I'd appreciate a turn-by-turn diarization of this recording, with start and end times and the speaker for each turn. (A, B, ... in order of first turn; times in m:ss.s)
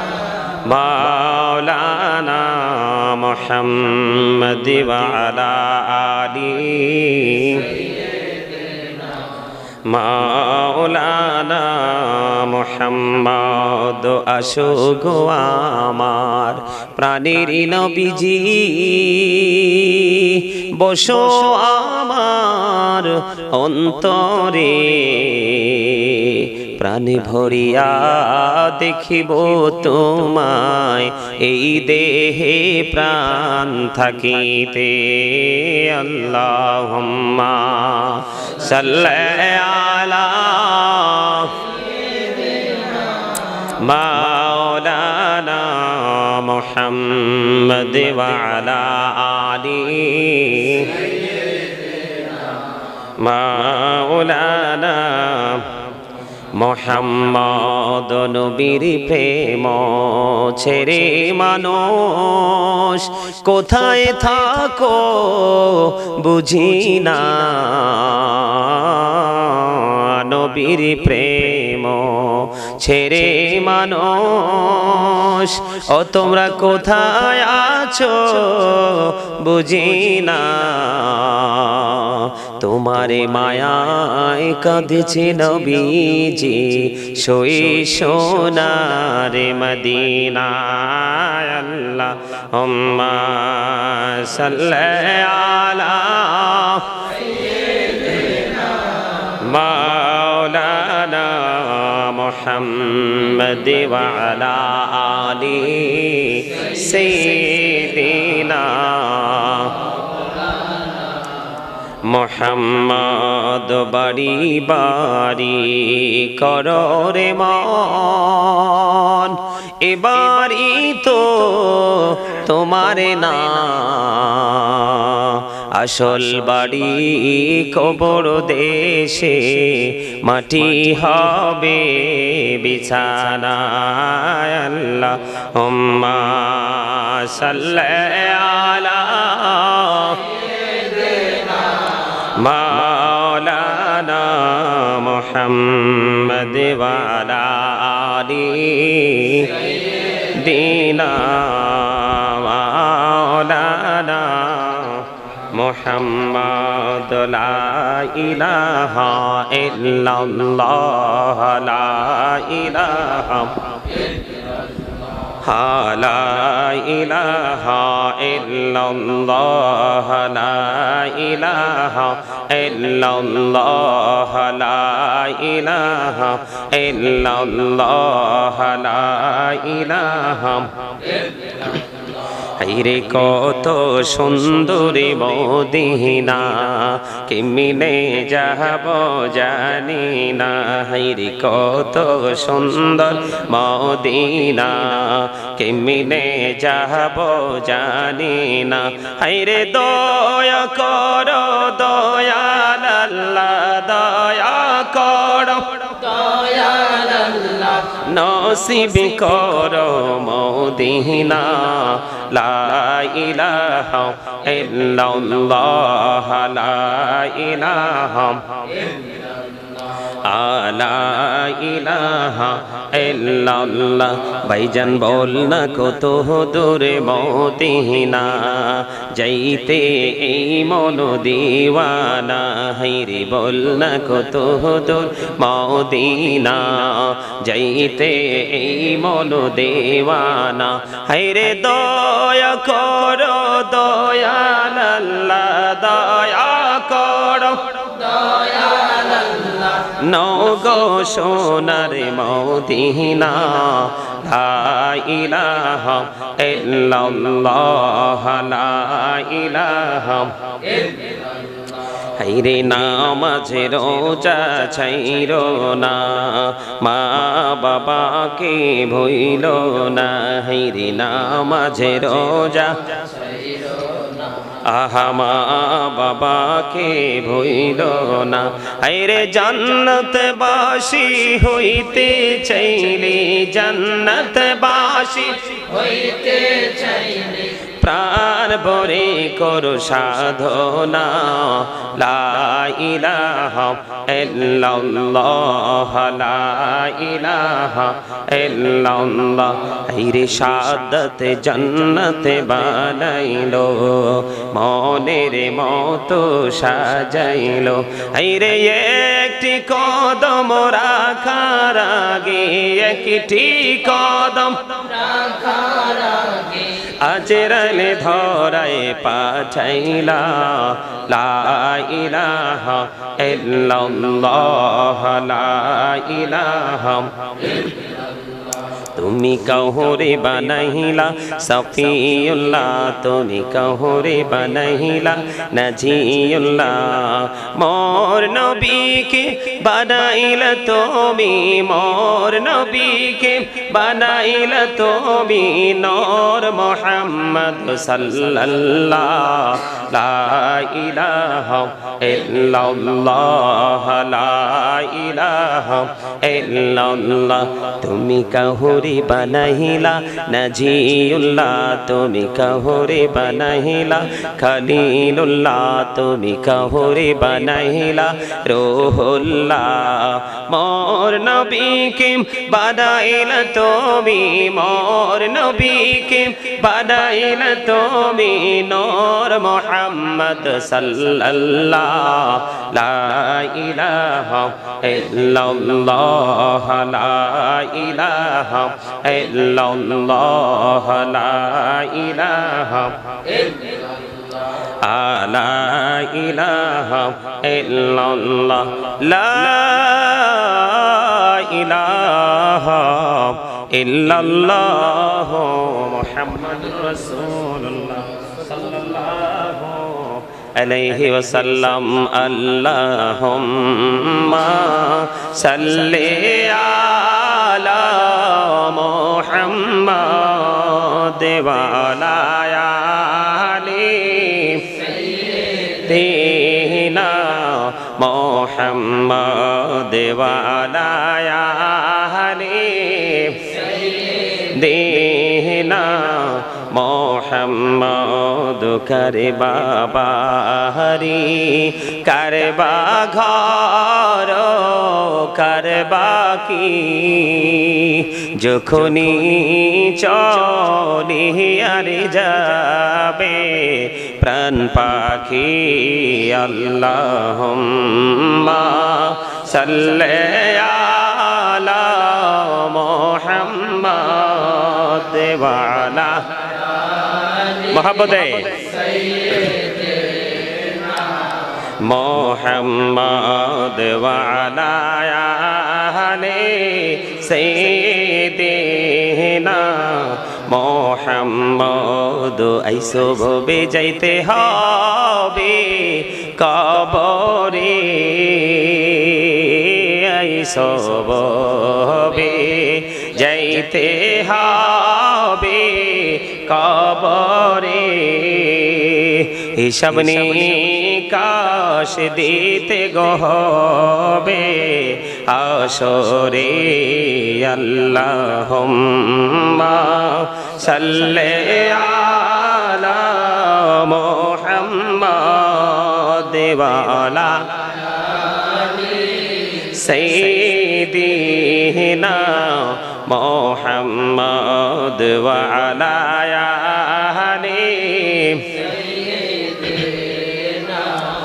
0:00.5-0:07.8 A
0:09.9-0:41.7 A
0:42.4-0:42.8 B
0:43.6-0:51.1 A
0:53.2-0:55.9 A
0:56.5-1:37.2 A
1:39.2-1:50.2 A
1:52.1-2:20.4 A
2:21.0-2:21.6 B
2:22.1-2:44.0 A
2:45.3-3:01.8 A
3:02.5-3:26.2 A
3:26.1-3:27.9 B
3:27.9-3:39.0 A
3:40.0-4:08.2 A
4:08.2-4:09.8 B
4:09.7-4:21.0 A
4:22.2-4:33.2 A
4:33.2-4:34.3 B
4:34.5-4:45.8 A
4:45.7-4:47.5 B
4:47.6-5:15.1 A
5:15.0-5:16.7 B
5:16.8-5:27.9 A
5:28.9-6:33.4 A
6:34.8-7:46.7 A
7:47.5-7:48.8 A
7:48.9-7:51.1 B
7:51.8-8:37.8 A
8:38.5-8:39.1 B
8:39.4-8:48.8 A
8:48.9-8:51.1 B